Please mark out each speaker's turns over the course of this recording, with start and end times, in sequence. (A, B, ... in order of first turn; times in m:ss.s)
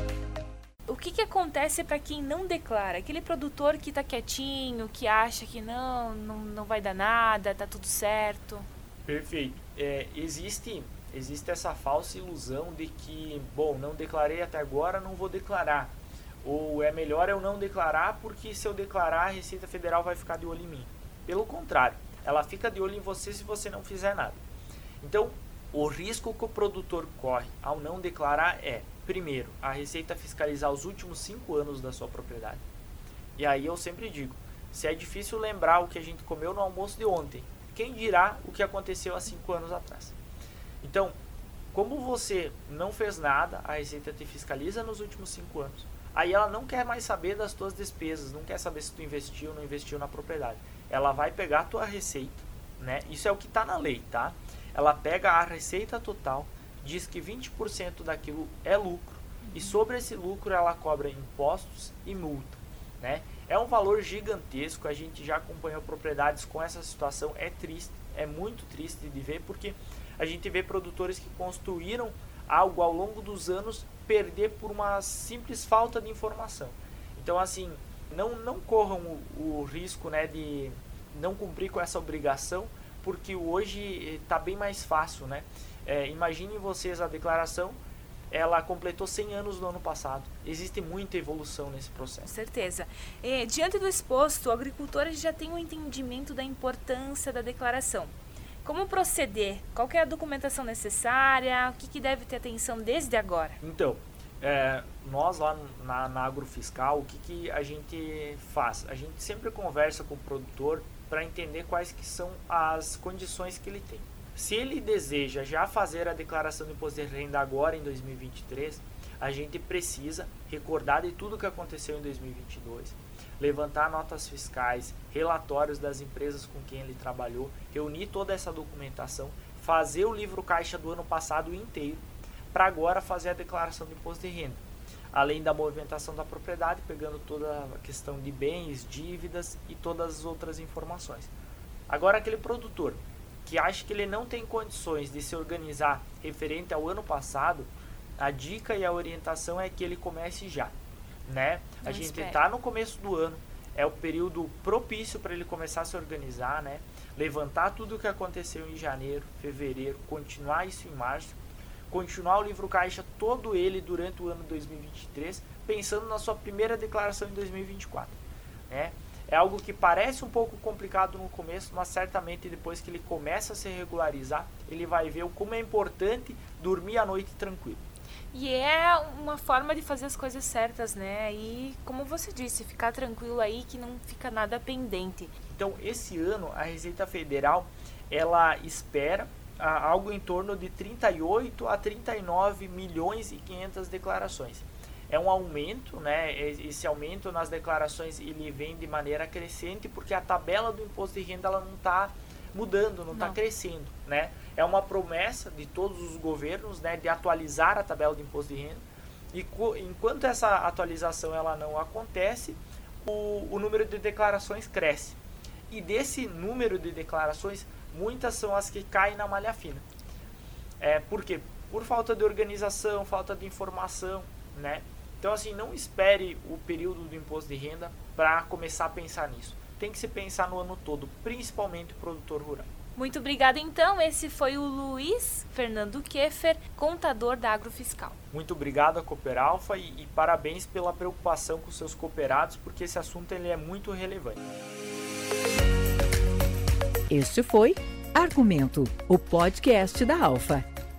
0:00.9-0:08.7 A
0:09.0-0:24.4 B
0:25.0-0:32.6 B
0:33.4-0:40.2 B
0:40.8-0:41.1 B
0:41.7-1:27.8 B
0:59.4-0:59.7 A
1:28.3-1:32.3 B
1:32.2-1:38.1 A
1:38.6-1:43.6 A
1:43.6-2:14.6 B
2:15.1-2:21.3 B
2:21.9-2:30.7 B
2:31.3-2:41.4 B
2:31.8-2:32.4 A
2:41.9-2:48.2 B
2:48.7-2:57.8 B
2:58.3-3:05.3 A
3:05.5-3:35.2 B
3:35.7-3:39.8 B
3:40.8-3:52.7 B
3:53.0-3:58.2 A
3:58.3-4:04.4 B
4:07.1-4:10.6 C